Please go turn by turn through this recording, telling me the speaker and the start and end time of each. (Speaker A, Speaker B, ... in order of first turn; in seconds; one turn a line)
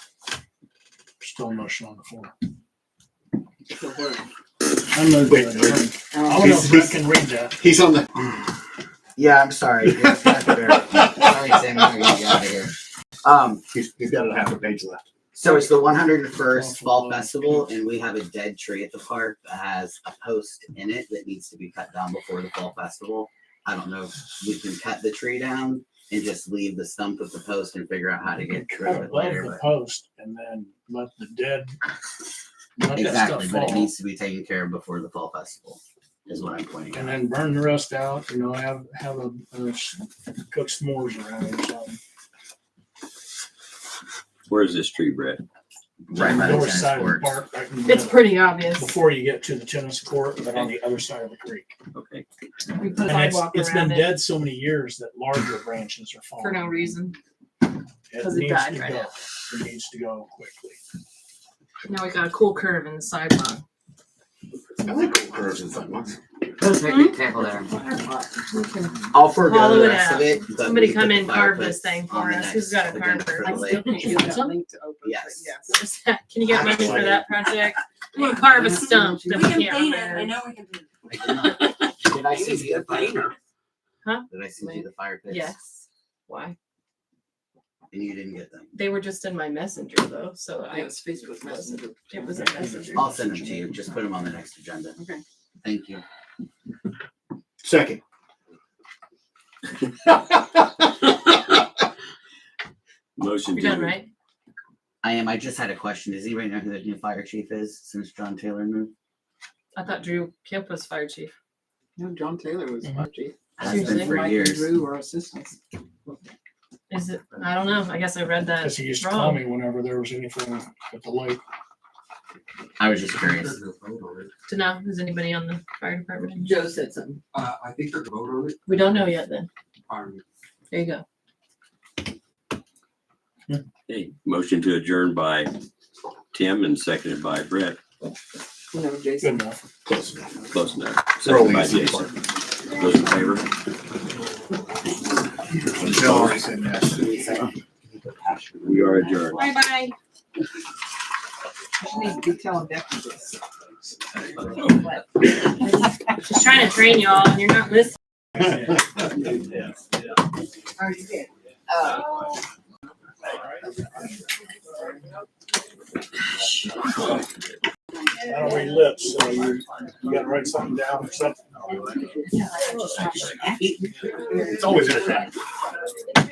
Speaker A: 1.2-2.3
Speaker B: 3.7-4.2
Speaker A: 4.8-7.6
Speaker C: 5.3-5.9
Speaker B: 6.1-6.4
Speaker C: 6.4-7.0
Speaker C: 7.6-8.1
Speaker D: 9.2-13.6
Speaker C: 13.7-15.0
Speaker D: 15.3-29.6
Speaker A: 16.4-17.7
Speaker A: 28.4-31.7
Speaker A: 32.8-33.9
Speaker D: 32.9-37.1
Speaker A: 36.9-42.0
Speaker E: 44.5-45.4
Speaker D: 46.1-47.4
Speaker A: 46.1-51.7
Speaker F: 47.8-48.9
Speaker E: 51.9-52.3
Speaker F: 52.7-54.1
Speaker A: 53.0-56.9
Speaker F: 56.4-57.2
Speaker A: 58.1-60.8
Speaker F: 58.2-59.1
Speaker F: 61.9-63.6
Speaker C: 64.8-66.2
Speaker D: 66.6-67.7
Speaker F: 66.8-67.2
Speaker B: 67.7-69.1
Speaker D: 69.1-74.1
Speaker F: 69.4-74.5
Speaker B: 73.4-75.8
Speaker D: 75.0-75.5
Speaker F: 75.7-80.4
Speaker D: 76.4-77.2
Speaker B: 78.1-79.5
Speaker G: 78.9-80.8
Speaker D: 81.1-83.3
Speaker G: 82.3-83.3
Speaker D: 84.3-85.5
Speaker F: 85.3-86.5
Speaker D: 87.9-88.7
Speaker F: 88.7-93.1
Speaker B: 90.7-92.4
Speaker D: 92.9-95.0
Speaker D: 95.6-96.0
Speaker C: 97.6-98.0
Speaker E: 103.2-104.0
Speaker F: 103.5-104.1
Speaker D: 105.0-108.9
Speaker F: 109.7-111.3
Speaker B: 112.0-116.1
Speaker D: 113.6-114.7
Speaker F: 113.6-114.2
Speaker F: 116.9-119.4
Speaker A: 118.6-121.4
Speaker D: 122.8-123.6
Speaker H: 123.3-124.3
Speaker F: 124.5-126.5
Speaker B: 126.4-127.2
Speaker H: 127.3-128.6
Speaker F: 128.7-129.5
Speaker H: 129.9-130.2
Speaker F: 130.7-131.0
Speaker E: 133.9-135.5
Speaker E: 136.3-137.8
Speaker B: 138.7-139.4
Speaker A: 139.2-139.7
Speaker C: 139.8-140.2
Speaker E: 140.5-143.5
Speaker C: 141.2-142.1
Speaker C: 145.8-147.5
Speaker D: 146.9-147.5
Speaker D: 148.0-148.7
Speaker E: 148.6-149.5
Speaker F: 149.3-149.9
Speaker B: 151.8-153.4
Speaker E: 154.4-154.7
Speaker B: 154.6-155.0
Speaker F: 155.5-157.9
Speaker A: 158.4-158.8
Speaker B: 160.8-162.0
Speaker A: 168.2-171.5
Speaker B: 172.2-174.7
Speaker E: 172.8-173.6
Speaker G: 174.2-174.6
Speaker C: 174.3-175.3